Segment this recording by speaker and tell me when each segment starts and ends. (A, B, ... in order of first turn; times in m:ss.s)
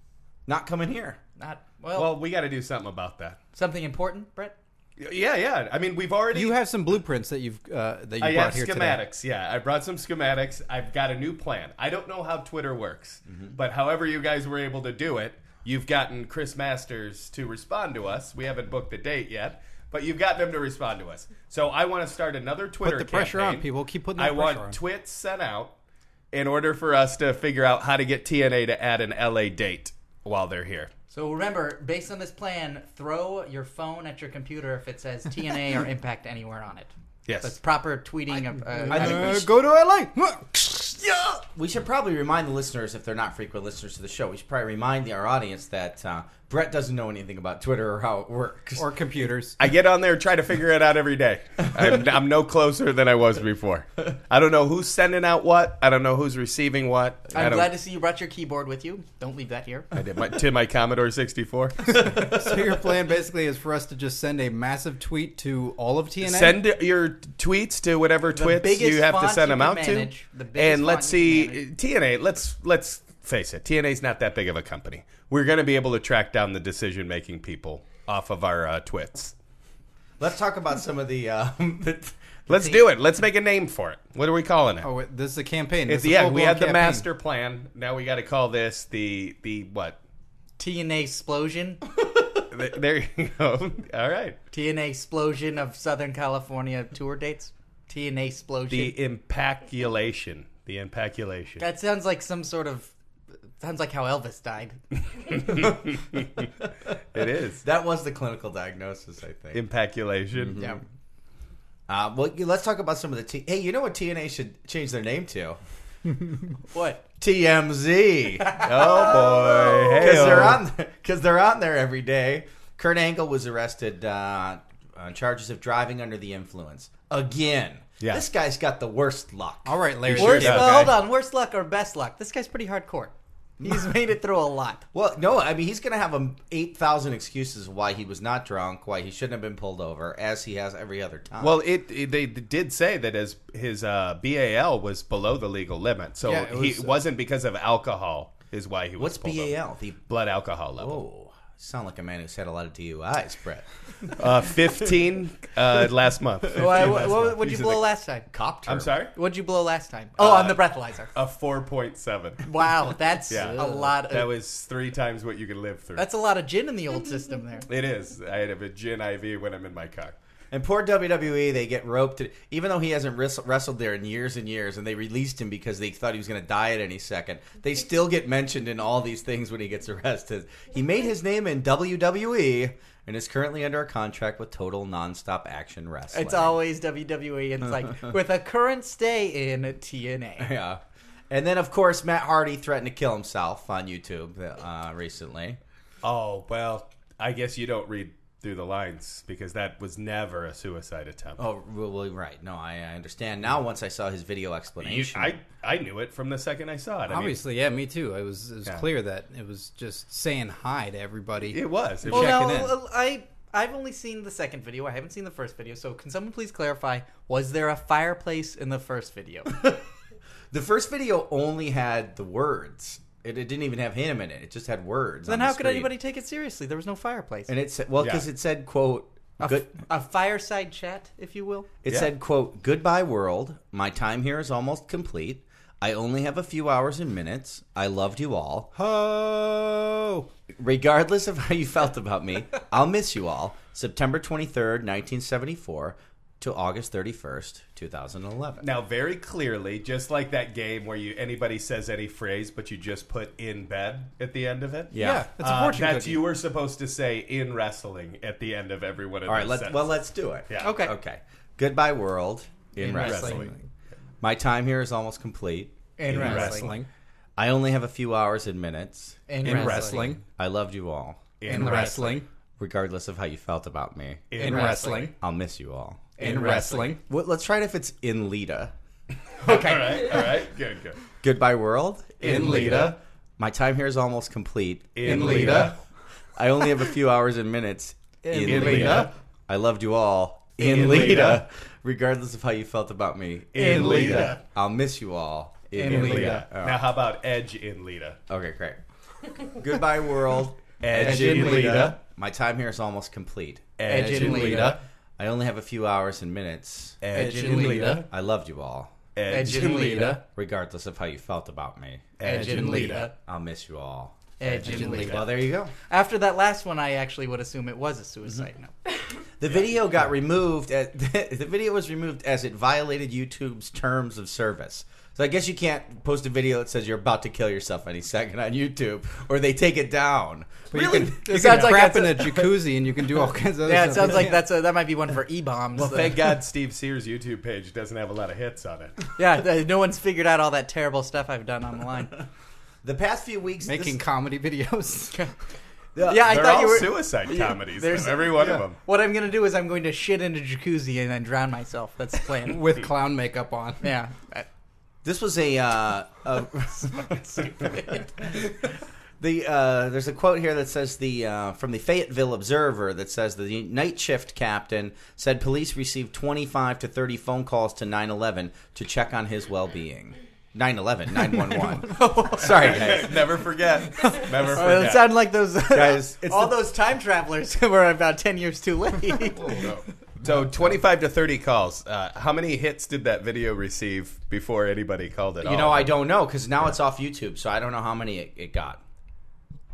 0:00.5-0:01.2 A
0:01.4-0:02.1 B
0:01.9-0:03.4 C
0:03.5-0:04.6 B
0:05.0-0:06.5 C
0:06.3-0:09.0 D
0:08.2-0:25.7 C
0:13.3-0:13.6 A
0:22.8-0:24.8 D
0:26.3-0:30.9 C
0:31.1-0:36.9 B
0:37.2-0:37.6 C
0:37.4-0:39.4 B
0:38.5-0:41.1 D
0:38.9-0:39.4 A
0:41.1-0:48.9 A
0:48.8-0:49.6 D
0:49.6-0:57.7 C
0:57.3-0:59.9 B
0:59.9-1:02.6 C
1:02.0-1:06.6 D
1:06.2-1:19.3 C
1:08.3-1:11.6 B
1:20.2-1:22.8 A
1:22.5-1:24.9 C
1:24.8-1:27.1 D
1:25.8-1:30.0 C
1:30.6-1:31.8 B
1:32.5-1:34.4 C
1:34.5-1:39.0 B
1:38.7-1:41.6 C
1:41.6-1:42.9 B
1:43.6-1:44.8 B
1:45.2-1:46.5 C
1:47.1-1:47.6 C
1:47.6-1:49.6 A
1:49.5-1:50.6 C
1:50.3-1:50.8 A
1:51.9-1:55.6 A
1:56.7-1:57.0 B
1:57.2-2:09.8 A
1:58.5-2:00.6 C
2:09.6-2:10.9 D
2:10.0-2:11.0 C
2:10.1-2:14.8 B
2:14.9-2:21.6 A
2:21.4-2:31.0 C
2:26.2-2:27.0 D
2:29.0-2:30.0 A
2:30.8-2:34.2 A
2:34.2-2:37.7 C
2:36.5-2:38.3 B
2:36.6-2:37.8 A
2:38.3-2:38.9 A
2:38.6-2:39.1 C
2:39.1-2:41.1 B
2:40.2-2:42.5 C
2:42.4-2:44.3 B
2:43.3-2:46.0 C
2:46.0-2:47.7 B
2:47.7-2:50.2 C
2:50.5-3:06.6 A
3:06.1-3:10.5 B
3:10.4-3:15.6 A
3:16.0-3:21.4 C
3:21.4-3:25.4 A
3:24.8-3:27.4 C
3:27.1-3:32.7 D
3:31.5-3:32.4 C
3:32.1-3:39.6 B
3:40.5-3:45.9 A
3:45.2-3:47.5 B
3:47.5-3:49.7 A
3:48.0-3:48.2 C
3:49.4-3:51.7 B
3:51.8-3:58.7 A
3:58.7-4:00.3 D
4:00.6-4:08.6 A
4:08.6-4:20.8 C
4:14.9-4:15.2 A
4:14.9-4:16.2 D
4:19.3-4:23.5 A
4:20.6-4:20.9 B
4:22.8-4:23.4 B
4:22.9-4:23.5 C
4:23.0-4:23.5 D
4:24.2-4:26.6 A
4:26.0-4:26.7 B
4:26.1-4:26.7 C
4:26.1-4:26.9 D
4:27.4-4:38.7 A
4:29.3-4:30.2 B
4:29.4-4:30.2 D
4:31.4-4:32.2 C
4:31.5-4:32.2 D
4:31.5-4:31.7 B
4:34.3-4:35.1 C
4:34.4-4:35.1 D
4:36.2-4:36.9 C
4:36.2-4:37.0 D
4:36.3-4:36.6 B
4:39.4-4:40.3 B
4:39.4-4:41.0 C
4:41.2-4:45.8 A
4:42.2-4:43.0 C
4:42.2-4:43.0 D
4:45.0-4:45.8 C
4:45.0-4:45.7 D
4:46.4-4:56.8 A
4:48.2-4:49.1 B
4:48.4-4:49.1 D
4:48.4-4:49.1 C
4:50.6-4:51.4 C
4:53.5-4:54.4 C
4:53.6-4:54.4 B
4:53.8-4:54.1 D
4:55.7-4:56.4 B
4:55.8-4:58.2 C
4:58.3-4:58.8 A
4:59.4-5:08.9 A
5:00.8-5:02.0 C
5:01.0-5:01.9 D
5:03.8-5:04.8 C
5:03.8-5:04.8 B
5:07.0-5:08.1 C
5:07.1-5:08.0 B
5:07.4-5:07.8 D
5:09.1-5:10.2 C
5:09.3-5:10.2 B
5:09.6-5:15.7 A
5:12.2-5:13.1 C
5:12.2-5:13.1 B
5:12.3-5:13.0 D
5:14.4-5:18.7 B
5:14.7-5:15.3 C
5:19.4-5:32.5 A
5:30.7-5:34.4 D
5:31.2-5:32.4 B
5:33.6-5:36.3 B
5:35.8-5:39.0 C
5:39.2-5:42.2 B
5:42.8-5:44.0 A
5:43.6-5:45.2 D
5:45.9-5:46.8 A
5:46.0-5:52.8 B
5:46.1-5:48.8 C
5:52.3-5:53.9 D
5:53.8-5:54.5 B
5:55.0-5:58.7 A
5:56.8-5:58.1 B
5:59.2-6:13.4 A
6:11.9-6:13.0 B
6:12.4-6:15.2 C
6:13.9-6:19.7 B
6:15.7-6:16.6 A
6:19.4-6:26.0 C
6:25.4-6:28.8 A